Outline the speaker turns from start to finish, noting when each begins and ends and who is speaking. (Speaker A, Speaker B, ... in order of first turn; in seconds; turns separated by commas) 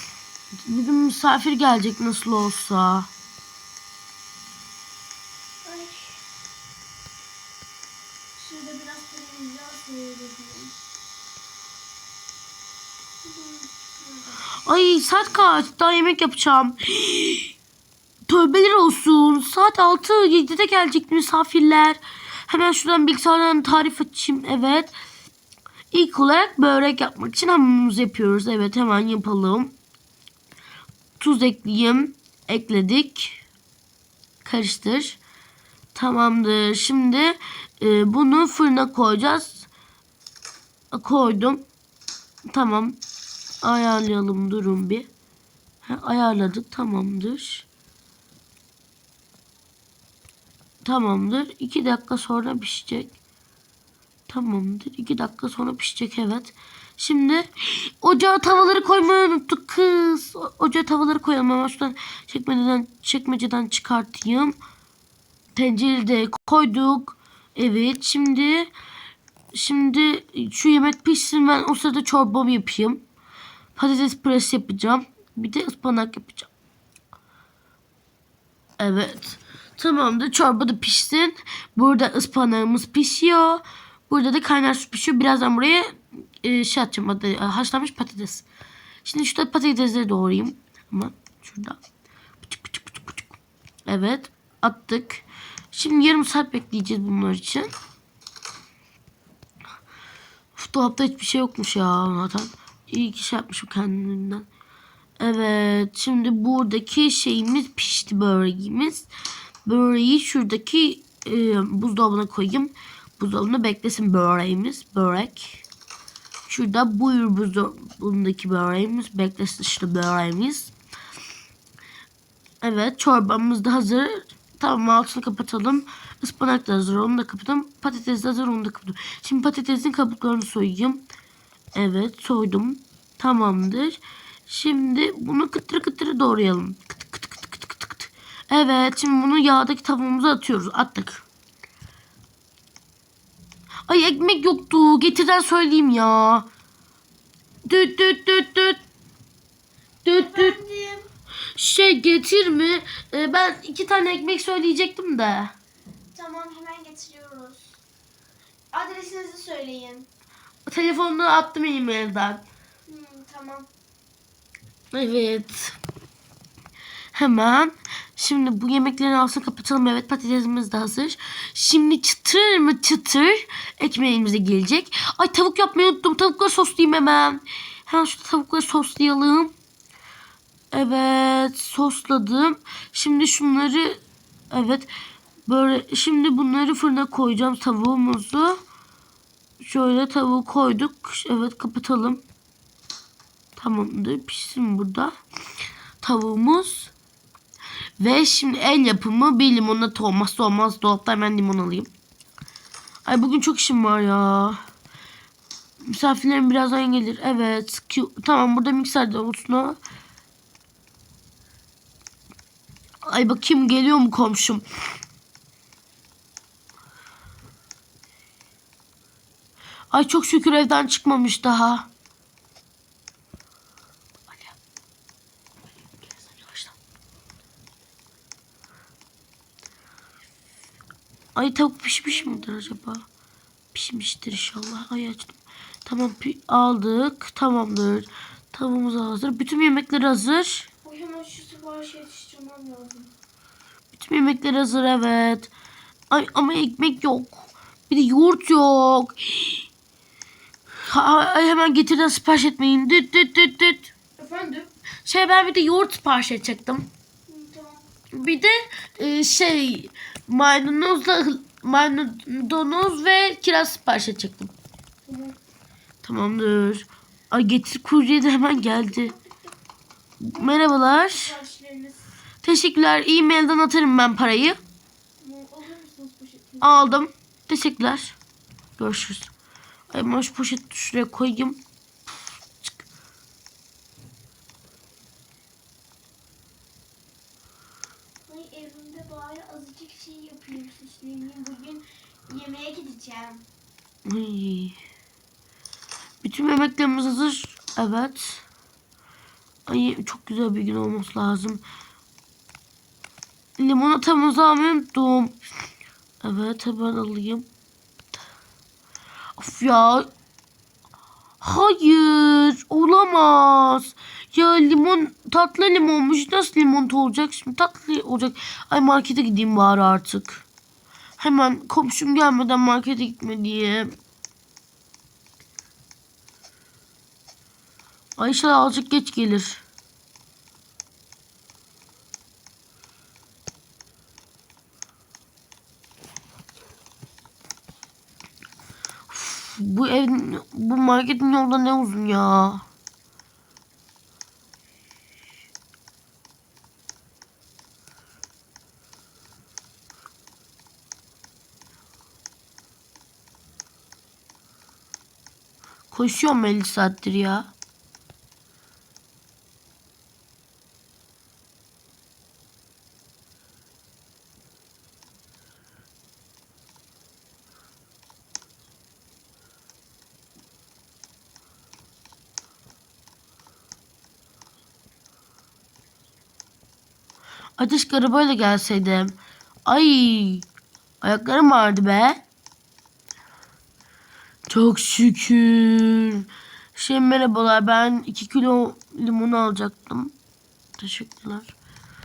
Speaker A: 0.6-3.1, Speaker B: 5.6-6.3, Speaker B: 8.3-10.8, Speaker B: 13.2-14.6, Speaker A: 14.5-17.5, Speaker A: 18.3-24.9, Speaker A: 25.9-29.7, Speaker A: 31.2-33.4, Speaker A: 34.4-35.2, Speaker A: 35.9-39.7, Speaker A: 40.9-41.6, Speaker A: 42.5-43.0, Speaker A: 43.6-45.1, Speaker A: 45.8-47.7, Speaker A: 50.8-53.1, Speaker A: 54.3-64.5, Speaker A: 65.5-68.7, Speaker A: 69.5-73.0, Speaker A: 73.8-76.5, Speaker A: 78.8-88.4, Speaker A: 89.0-91.8, Speaker A: 92.4-93.3, Speaker A: 93.9-97.7, Speaker A: 100.5-104.5, Speaker A: 105.2-109.1, Speaker A: 109.6-115.6, Speaker A: 116.5-120.7, Speaker A: 122.6-131.0, Speaker A: 131.7-141.2, Speaker A: 143.9-146.5, Speaker A: 147.7-148.8, Speaker A: 150.0-150.5, Speaker B: 150.1-151.1, Speaker A: 151.6-155.5, Speaker B: 156.1-157.8, Speaker B: 158.7-160.1, Speaker A: 160.7-162.4, Speaker B: 162.9-163.7, Speaker A: 164.9-165.8, Speaker A: 167.1-179.5, Speaker A: 180.7-184.9, Speaker A: 185.4-188.6, Speaker A: 189.6-192.2, Speaker A: 193.6-195.1, Speaker A: 196.0-196.9, Speaker A: 198.0-201.9, Speaker A: 203.0-204.6, Speaker A: 205.8-209.8, Speaker A: 213.0-214.6, Speaker A: 219.9-221.9, Speaker A: 226.2-226.7, Speaker A: 231.3-233.0, Speaker B: 232.1-232.7, Speaker A: 233.7-240.7, Speaker B: 240.8-243.1, Speaker A: 243.9-245.5, Speaker A: 246.1-249.6, Speaker A: 250.8-253.9, Speaker B: 254.2-254.7, Speaker A: 255.0-256.9, Speaker B: 257.3-257.8, Speaker A: 258.1-264.5, Speaker B: 265.1-265.4, Speaker A: 266.0-269.1, Speaker B: 268.5-269.6, Speaker A: 270.2-271.3, Speaker B: 270.3-272.1, Speaker A: 272.4-274.6, Speaker B: 275.2-276.9, Speaker A: 276.6-278.2, Speaker A: 278.8-279.3, Speaker A: 279.9-281.6, Speaker B: 288.2-293.4, Speaker A: 294.1-294.8, Speaker A: 296.2-298.4, Speaker A: 299.7-301.6, Speaker A: 303.6-305.3, Speaker A: 306.2-307.5, Speaker A: 309.4-310.1, Speaker A: 311.4-320.4, Speaker A: 321.2-323.9, Speaker A: 328.2-329.6, Speaker A: 339.1-342.6, Speaker A: 355.9-357.5, Speaker A: 377.6-380.5, Speaker A: 381.0-382.2, Speaker A: 384.5-390.1, Speaker A: 390.8-391.5